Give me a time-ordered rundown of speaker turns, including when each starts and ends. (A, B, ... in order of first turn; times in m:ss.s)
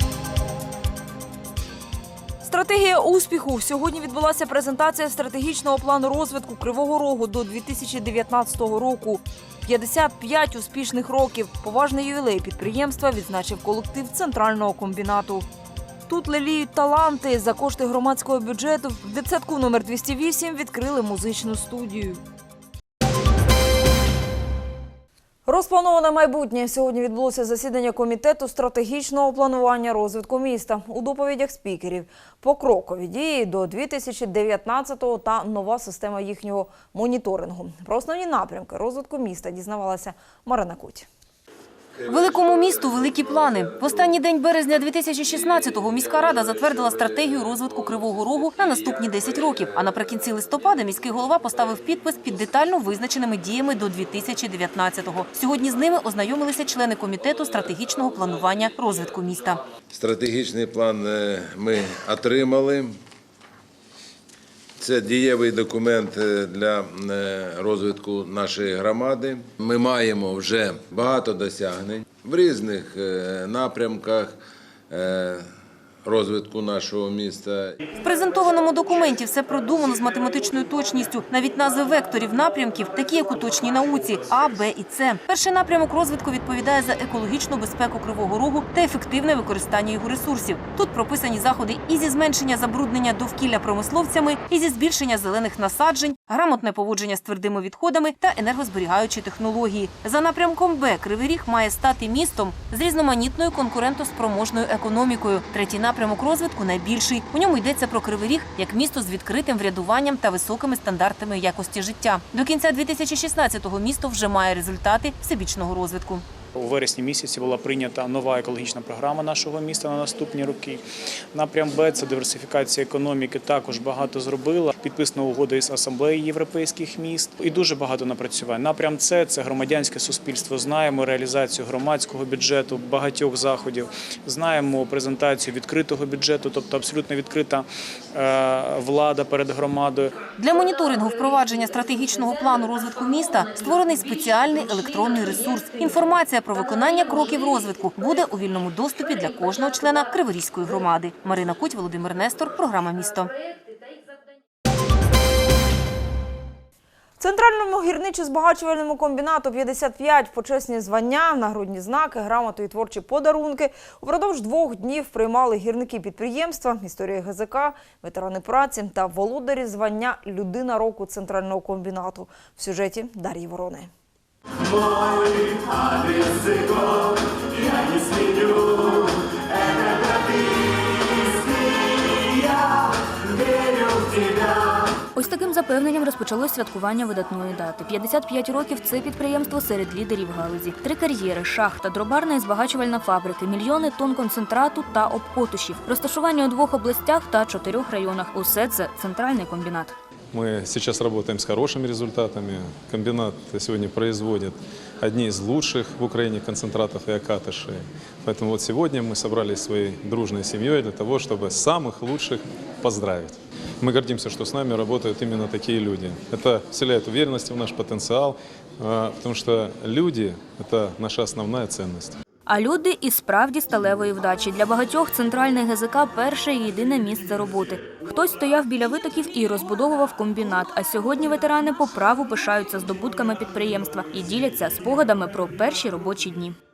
0:02.4-0:15.5 A
0:16.1-0:22.2 A
0:25.5-0:41.1 A
0:42.1-0:59.6 B
0:59.9-1:02.9 C
1:04.8-1:14.3 C
1:14.9-1:15.4 C
1:16.1-1:17.6 C
1:18.0-1:56.2 B
1:56.6-2:00.8 D
2:01.3-2:20.1 D
2:20.4-2:33.3 B
2:37.2-2:53.9 A
3:05.2-3:20.0 E
3:20.3-3:42.2 F
3:42.5-3:56.6 E